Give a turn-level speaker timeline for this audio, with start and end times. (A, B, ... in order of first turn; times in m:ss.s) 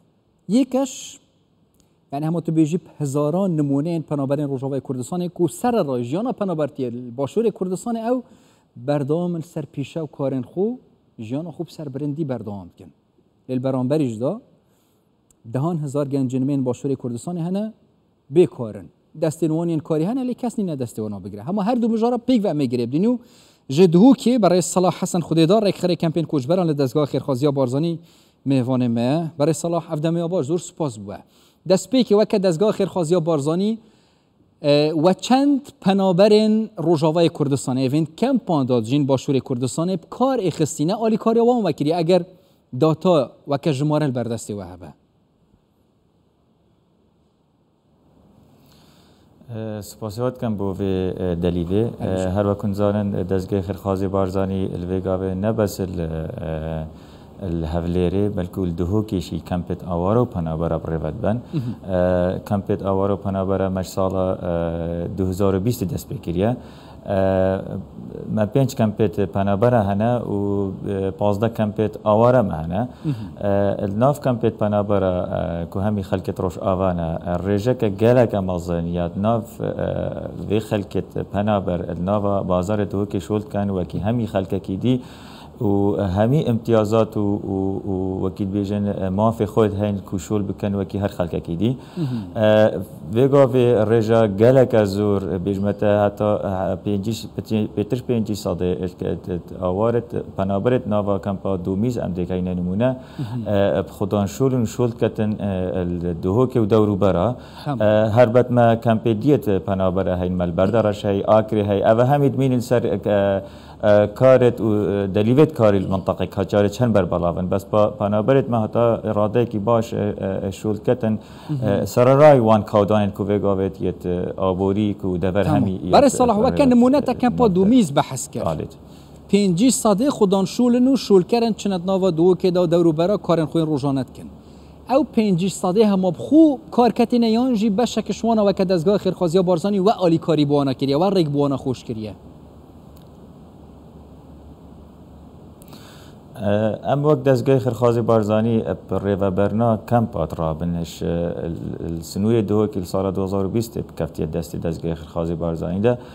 0:00.5-0:01.2 A
0:02.1-0:08.2 A
0:08.7-0:12.9 A
0:13.5-0:14.4 A
0:15.4-0:17.7 A
0:18.3-0:33.8 A
0:34.6-0:44.9 A
0:49.5-1:25.0 B
1:13.0-1:13.3 A
1:25.6-2:07.8 B
1:32.0-1:32.3 A
1:43.2-1:43.5 A
2:05.4-2:08.6 A
2:08.4-2:08.8 B
2:09.3-2:14.3 A
2:14.9-2:22.2 A
2:26.4-2:36.0 B